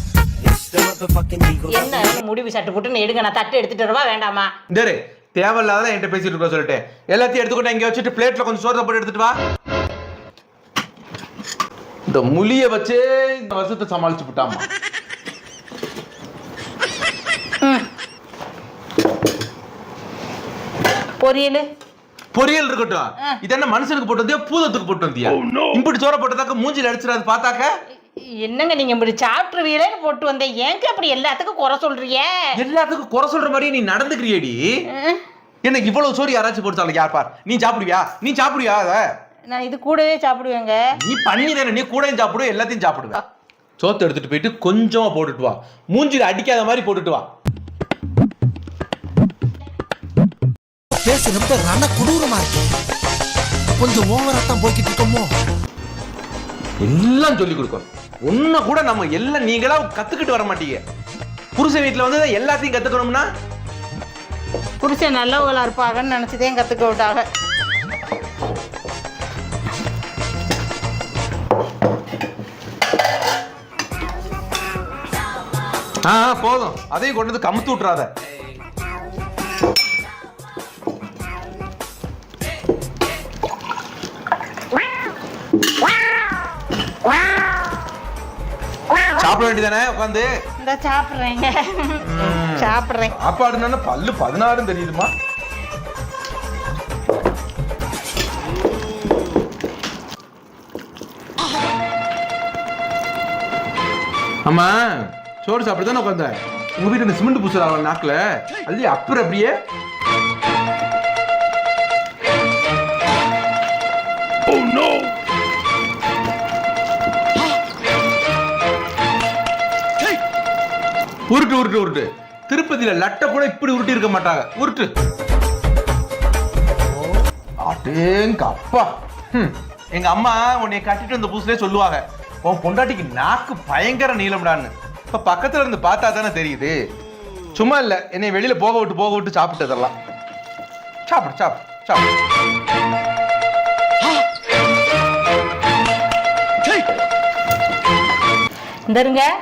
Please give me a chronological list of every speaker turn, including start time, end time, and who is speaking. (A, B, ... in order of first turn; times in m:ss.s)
0:00.5-0:01.8 A
0:01.7-0:04.5 B
0:04.7-0:09.4 C
0:12.1-0:14.7 C
0:17.6-0:17.9 B
0:21.2-0:21.6 B
0:22.3-0:27.7 C
0:28.2-0:32.5 B
0:32.6-0:34.6 C
0:34.9-0:35.2 B
0:35.6-0:39.0 C
0:39.5-0:40.8 B
0:41.0-0:43.2 C
0:43.8-0:47.3 C
0:51.0-0:52.6 A
0:53.8-0:55.3 A
0:56.8-1:00.8 C
1:01.6-1:03.2 C
1:04.8-1:07.2 B
1:16.0-1:18.1 C
1:29.1-1:30.3 C
1:30.6-1:33.1 B
1:32.0-1:35.1 C
1:44.4-1:49.6 C
2:01.3-2:04.9 C
2:07.6-2:16.8 C
2:17.6-2:19.9 C
2:21.1-2:22.1 C
2:28.9-2:29.2 B